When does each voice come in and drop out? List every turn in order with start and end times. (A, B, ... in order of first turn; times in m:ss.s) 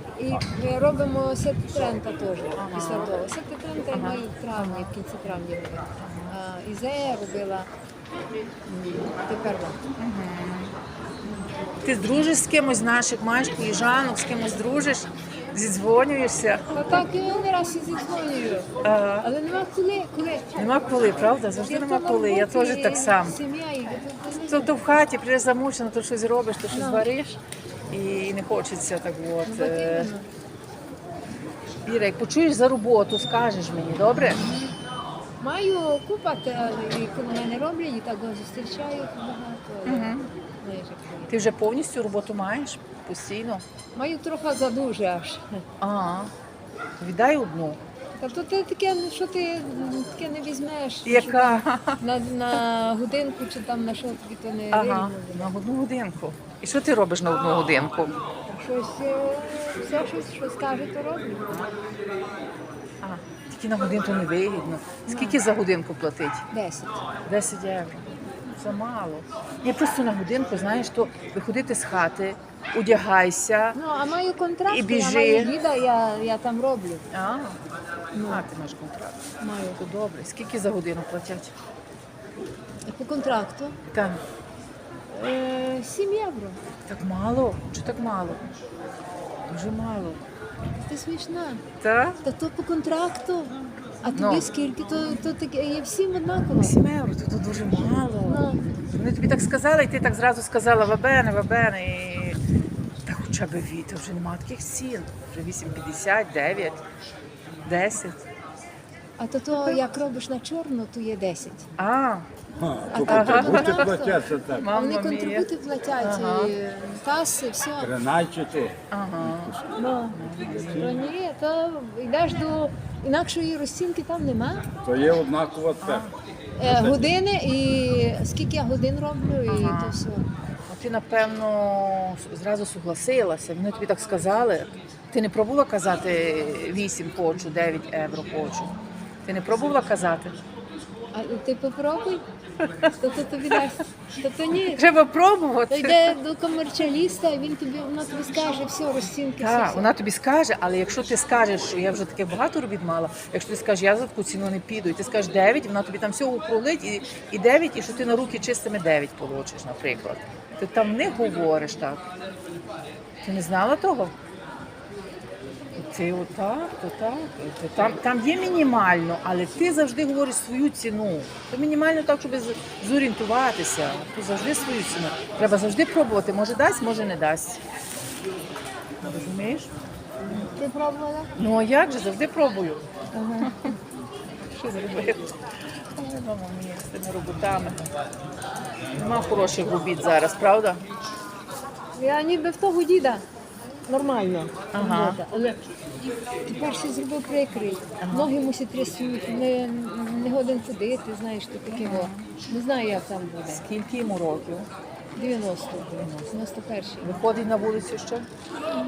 0:00.2-0:07.7 A
0:02.6-0:03.1 B
0:03.9-0:04.9 B
0:06.0-0:06.3 B
0:08.7-0:09.8 A
0:10.0-0:10.7 B
0:11.8-0:16.7 B
0:16.7-0:18.7 A
0:18.8-0:19.3 B
0:19.2-0:20.6 A
0:20.6-0:23.4 B
0:21.6-0:24.7 A
0:24.5-0:30.1 B
0:26.7-0:27.0 A
0:29.4-0:30.3 A
0:31.8-0:34.4 B
0:35.4-0:41.4 A
0:39.8-0:40.3 B
0:41.3-0:43.6 B
0:43.9-0:45.6 A
0:45.8-0:46.3 B
0:47.0-0:47.8 B
0:48.1-0:55.5 A
0:51.0-0:52.0 B
0:54.7-0:58.2 B
0:58.5-1:01.6 A
1:03.0-1:06.4 B
1:05.1-1:05.4 A
1:06.5-1:07.0 A
1:07.2-1:13.8 B
1:13.7-1:17.0 A
1:14.7-1:15.5 B
1:17.1-1:17.6 B
1:18.1-1:18.4 A
1:18.3-1:19.2 B
1:19.4-1:19.8 A
1:19.7-1:21.5 B
1:22.8-1:23.8 A
1:23.9-1:24.2 B
1:25.1-1:26.6 A
1:26.9-1:28.4 B
1:29.5-1:30.2 B
1:30.8-1:31.6 A
1:31.8-1:32.2 B
1:32.2-1:36.8 A
1:34.1-1:34.5 B
1:36.6-1:42.4 B
1:38.2-1:38.6 A
1:43.0-1:46.8 B
1:47.7-1:48.2 B
1:49.2-1:51.7 A
1:49.5-1:49.8 B
1:51.8-1:52.3 B
1:52.6-1:54.7 C
1:52.9-1:54.2 A
1:52.9-1:54.0 B
1:54.5-1:55.5 B
1:54.7-1:57.9 A
1:56.0-1:56.5 B
1:57.8-2:01.1 C
1:58.9-1:59.6 B
1:59.7-2:04.6 A
2:00.1-2:00.9 B
2:04.8-2:06.1 C
2:05.8-2:06.1 B
2:06.6-2:10.3 A
2:06.6-2:07.1 C
2:09.5-2:10.0 B
2:10.7-2:20.4 B
2:21.1-2:22.2 A
2:23.0-2:24.8 A
2:24.7-2:26.2 B
2:25.7-2:29.9 A
2:29.4-2:42.0 B
2:43.2-2:44.1 B
2:45.8-2:57.6 B
2:59.0-2:59.7 B
3:00.2-3:01.3 A
3:01.4-3:03.8 B
3:03.1-3:03.5 A
3:04.5-3:05.3 B
3:06.0-3:07.8 B
3:08.9-3:10.8 B
3:11.9-3:13.2 A
3:13.9-3:15.6 A
3:14.7-3:15.2 B
3:16.5-3:23.6 A
3:18.0-3:18.3 B
3:21.7-3:22.3 B
3:23.5-3:24.7 B
3:25.2-3:27.2 A
3:25.9-3:26.3 B
3:27.0-3:28.2 B